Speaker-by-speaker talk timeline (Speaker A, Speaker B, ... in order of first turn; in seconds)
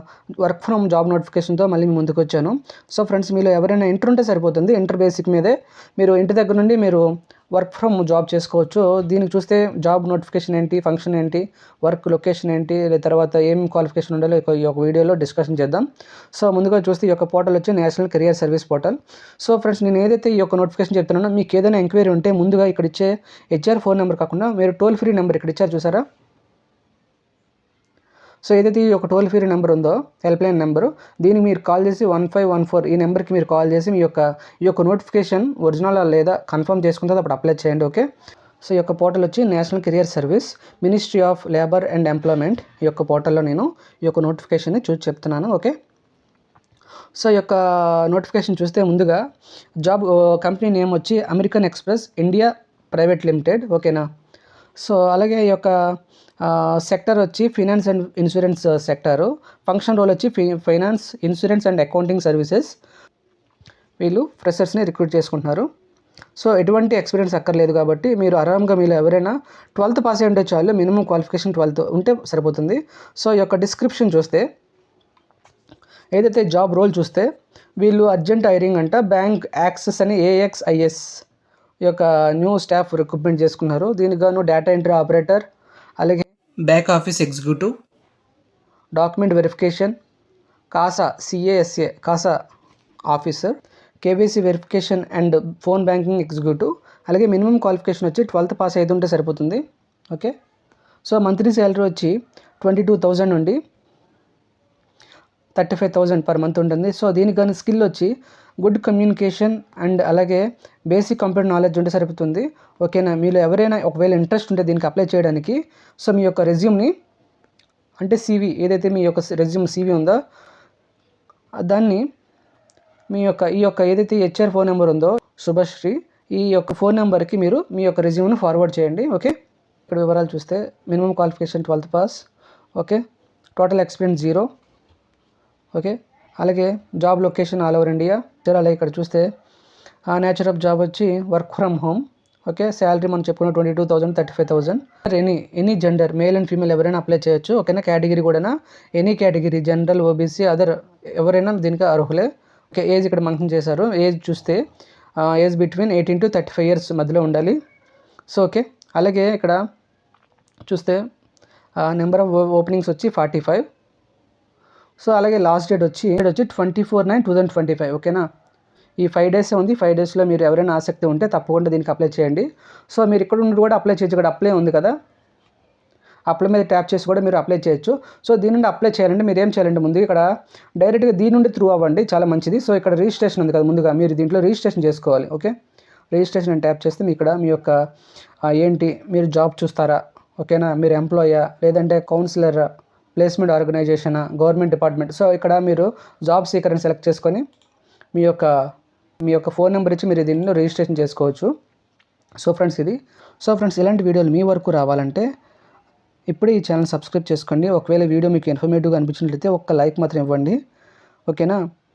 Speaker A: 0.4-26.0, 28.4-38.0, 38.6-45.7, 47.1-49.2, 49.8-54.0, 54.8-55.7, 56.4-62.7, 64.0-65.7, 66.3-74.4, 76.1-77.3, 77.8-81.2, 81.8-85.4, 86.0-87.7, 89.0-90.0, 90.7-92.4, 93.1-100.3, 101.0-103.6, 105.5-116.9, 118.0-120.2, 121.6-122.0, 123.1-129.3, 129.9-132.2, 132.8-133.0, 133.6-134.5, 135.7-139.3, 140.1-154.6, 155.2-157.6, 158.3-159.6, 160.7-161.0, 161.8-163.7, 165.0-168.2, 169.0-174.9, 176.3-185.5, 186.1-187.8, 188.5-197.4, 198.1-198.5, 199.2-201.5, 202.4-205.2, 206.3-210.6, 211.3-211.6